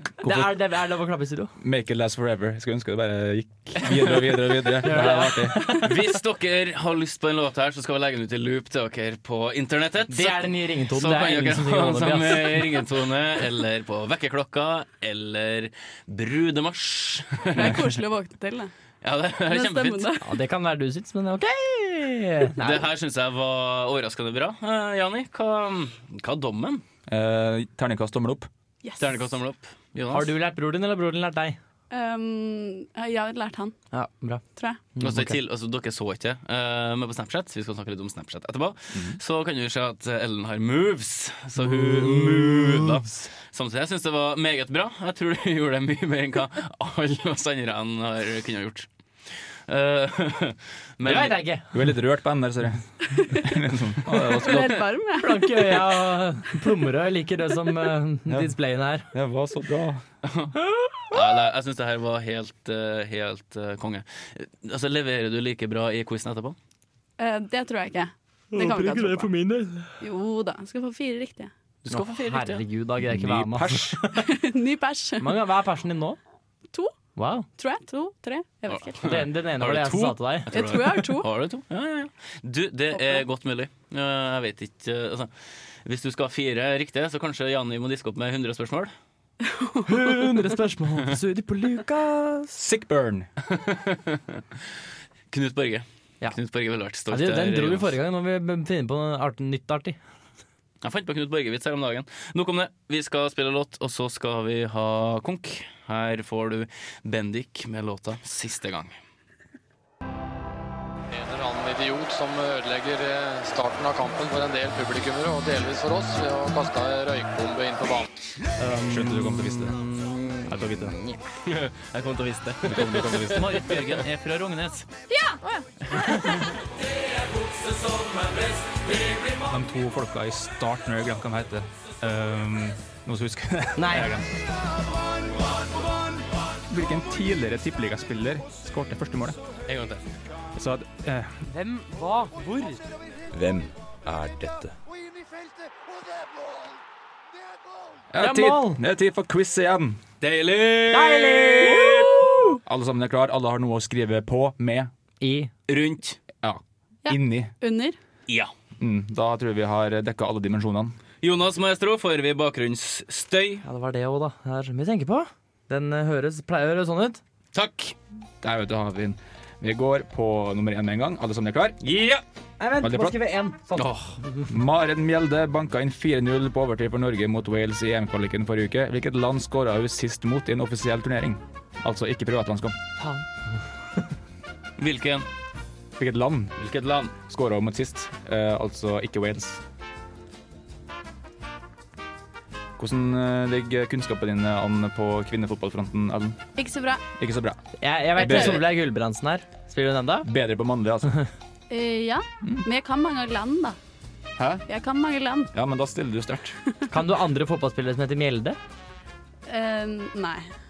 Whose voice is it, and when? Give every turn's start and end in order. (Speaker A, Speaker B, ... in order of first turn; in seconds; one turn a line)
Speaker A: 0.2-0.5
Speaker B: 0.2-1.5
Speaker A: 1.6-5.7
Speaker C: 3.9-18.0
Speaker B: 4.8-5.9
Speaker B: 10.1-12.8
Speaker D: 17.5-18.7
Speaker C: 19.0-20.1
Speaker D: 19.5-20.3
Speaker B: 20.2-22.9
Speaker C: 22.6-26.8
Speaker A: 27.1-28.5
Speaker D: 28.8-29.1
Speaker C: 29.0-30.3
Speaker B: 30.1-31.6
Speaker D: 31.9-33.8
Speaker B: 33.9-34.4
Speaker B: 35.0-35.4
Speaker C: 35.0-48.9
Speaker A: 38.9-39.2
Speaker C: 49.7-51.4
Speaker B: 51.0-51.8
Speaker A: 51.7-54.8
Speaker D: 53.1-53.5
Speaker D: 54.1-55.9
Speaker B: 55.2-59.1
Speaker A: 58.3-58.5
Speaker A: 59.1-60.0
Speaker C: 60.2-60.5
Speaker B: 60.7-61.1
Speaker C: 61.1-66.6
Speaker D: 67.2-69.3
Speaker B: 68.5-70.0
Speaker D: 70.0-71.5
Speaker C: 71.8-72.6
Speaker B: 71.9-74.3
Speaker A: 73.0-74.0
Speaker D: 74.1-75.3
Speaker B: 75.2-76.2
Speaker B: 77.2-77.5
Speaker D: 77.6-79.2
Speaker C: 78.7-85.3
Speaker B: 79.0-80.5
Speaker D: 80.5-81.3
Speaker D: 82.9-83.2
Speaker C: 85.8-88.9
Speaker D: 89.4-90.1
Speaker B: 89.9-92.6
Speaker A: 92.5-93.3
Speaker C: 93.5-94.4
Speaker C: 95.3-97.9
Speaker B: 97.1-100.0
Speaker C: 100.8-109.0
Speaker E: 111.1-118.1
Speaker A: 118.7-119.8
Speaker C: 118.9-124.9
Speaker A: 120.5-121.0
Speaker A: 122.6-124.0
Speaker D: 125.1-126.4
Speaker C: 125.9-126.4
Speaker C: 128.0-129.0
Speaker A: 129.4-134.3
Speaker B: 133.8-134.1
Speaker A: 136.7-139.4
Speaker C: 139.7-140.1
Speaker A: 140.6-141.4
Speaker B: 141.5-142.9
Speaker A: 143.3-144.7
Speaker A: 148.1-150.0
Speaker B: 148.2-148.8
Speaker C: 150.2-152.4
Speaker B: 150.9-152.6
Speaker A: 152.6-154.9
Speaker B: 155.2-155.5
Speaker C: 155.7-156.2
Speaker A: 156.4-157.5
Speaker D: 157.1-158.0
Speaker A: 158.8-161.0
Speaker C: 161.2-163.6
Speaker B: 163.6-167.2
Speaker C: 167.5-168.0
Speaker A: 168.4-171.8
Speaker C: 171.8-172.2
Speaker B: 172.6-174.4
Speaker A: 172.8-173.2
Speaker C: 173.8-174.2
Speaker A: 174.5-182.8
Speaker B: 183.0-183.3
Speaker C: 184.8-185.3
Speaker A: 186.0-186.6
Speaker C: 186.6-187.1
Speaker A: 187.2-189.6
Speaker A: 192.8-196.4
Speaker D: 196.6-197.0
Speaker A: 197.2-197.6
Speaker B: 197.8-200.3
Speaker A: 198.2-198.6
Speaker D: 198.2-198.6
Speaker A: 200.2-201.1
Speaker D: 201.7-203.8
Speaker A: 204.4-204.6
Speaker D: 204.7-205.5
Speaker A: 205.5-206.6
Speaker B: 206.9-208.6
Speaker D: 209.5-210.5